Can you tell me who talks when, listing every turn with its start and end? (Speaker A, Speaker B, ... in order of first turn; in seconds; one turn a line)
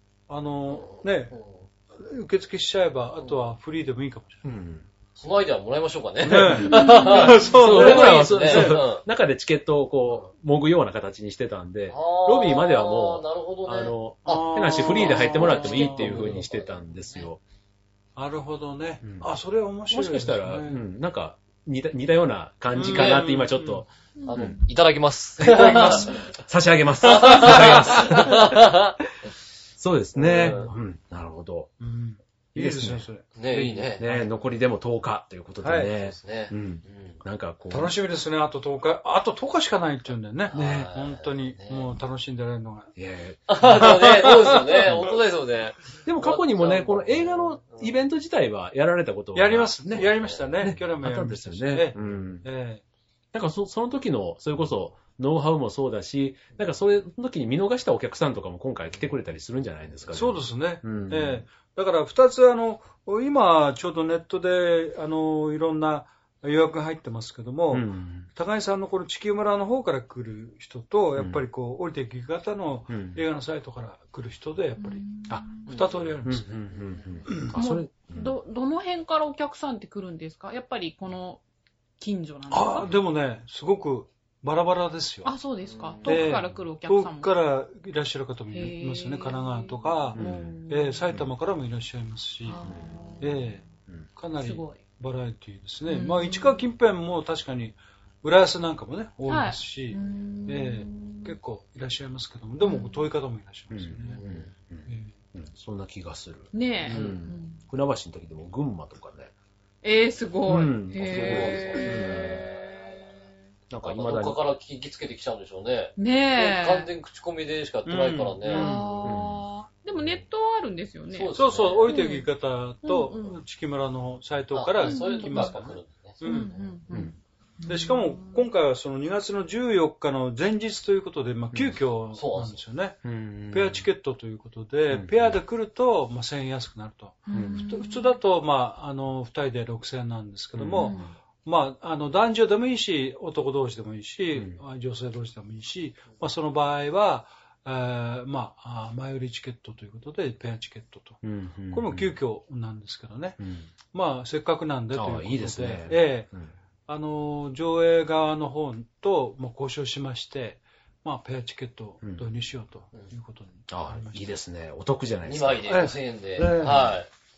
Speaker A: 0.3-1.3
Speaker B: 0.7-1.6
Speaker A: 1.9-4.4
Speaker B: 3.2-3.5
Speaker C: 4.4-4.9
Speaker B: 5.2-9.0
Speaker A: 6.2-8.8
Speaker C: 6.4-6.8
Speaker D: 6.7-7.4
Speaker C: 7.5-17.4
Speaker B: 11.9-17.3
Speaker A: 14.2-16.4
Speaker A: 18.1-20.8
Speaker C: 19.0-19.3
Speaker C: 19.9-24.6
Speaker A: 22.7-23.8
Speaker B: 22.9-23.2
Speaker D: 24.2-24.6
Speaker B: 24.2-26.2
Speaker A: 25.4-26.2
Speaker C: 25.4-28.8
Speaker B: 27.0-28.9
Speaker C: 29.8-31.7
Speaker A: 30.2-30.6
Speaker B: 30.2-30.7
Speaker A: 31.8-34.3
Speaker C: 32.5-33.0
Speaker B: 33.4-34.1
Speaker C: 34.0-37.9
Speaker A: 35.6-35.9
Speaker B: 35.8-37.2
Speaker A: 37.7-42.9
Speaker B: 40.5-41.9
Speaker C: 43.0-44.3
Speaker B: 43.5-48.0
Speaker A: 43.6-44.6
Speaker C: 44.8-45.1
Speaker C: 46.0-52.5
Speaker A: 49.3-52.8
Speaker B: 50.0-50.7
Speaker C: 53.3-61.4
Speaker A: 60.1-76.5
Speaker C: 67.7-68.3
Speaker C: 72.9-73.2
Speaker D: 74.8-75.8
Speaker C: 76.2-78.3
Speaker A: 77.3-77.5
Speaker D: 77.5-81.4
Speaker D: 82.0-82.9
Speaker A: 82.5-85.3
Speaker D: 85.2-87.3
Speaker A: 86.0-92.7
Speaker D: 88.5-91.0
Speaker C: 90.1-90.5
Speaker D: 92.4-93.7
Speaker C: 92.6-93.0
Speaker A: 93.2-93.6
Speaker A: 94.2-104.2
Speaker D: 94.4-94.8
Speaker D: 95.8-96.6
Speaker D: 99.3-101.3
Speaker D: 102.6-103.1
Speaker C: 103.7-109.3
Speaker B: 104.1-104.5
Speaker A: 104.8-105.1
Speaker D: 106.5-107.6
Speaker B: 106.9-107.1
Speaker D: 109.8-113.1
Speaker C: 110.5-112.4
Speaker B: 111.0-113.1
Speaker C: 113.7-114.4
Speaker B: 113.8-119.2
Speaker D: 116.0-116.9
Speaker A: 117.8-118.9
Speaker D: 118.5-122.3
Speaker C: 119.0-119.3
Speaker B: 120.0-120.2
Speaker B: 121.1-121.9
Speaker A: 121.3-126.5
Speaker D: 122.8-123.4
Speaker B: 124.5-126.7
Speaker D: 124.8-125.6
Speaker D: 126.2-128.4
Speaker A: 127.7-153.4
Speaker B: 132.1-132.6
Speaker C: 133.0-133.9
Speaker C: 134.9-135.4
Speaker D: 137.3-138.1
Speaker C: 137.3-137.6
Speaker C: 140.5-141.0
Speaker D: 140.8-141.1
Speaker C: 144.3-144.6
Speaker C: 151.2-152.1
Speaker C: 153.4-153.7
Speaker A: 153.9-156.3
Speaker C: 154.9-156.5
Speaker A: 156.9-164.3
Speaker C: 163.7-165.7
Speaker B: 165.2-167.1
Speaker A: 165.7-166.9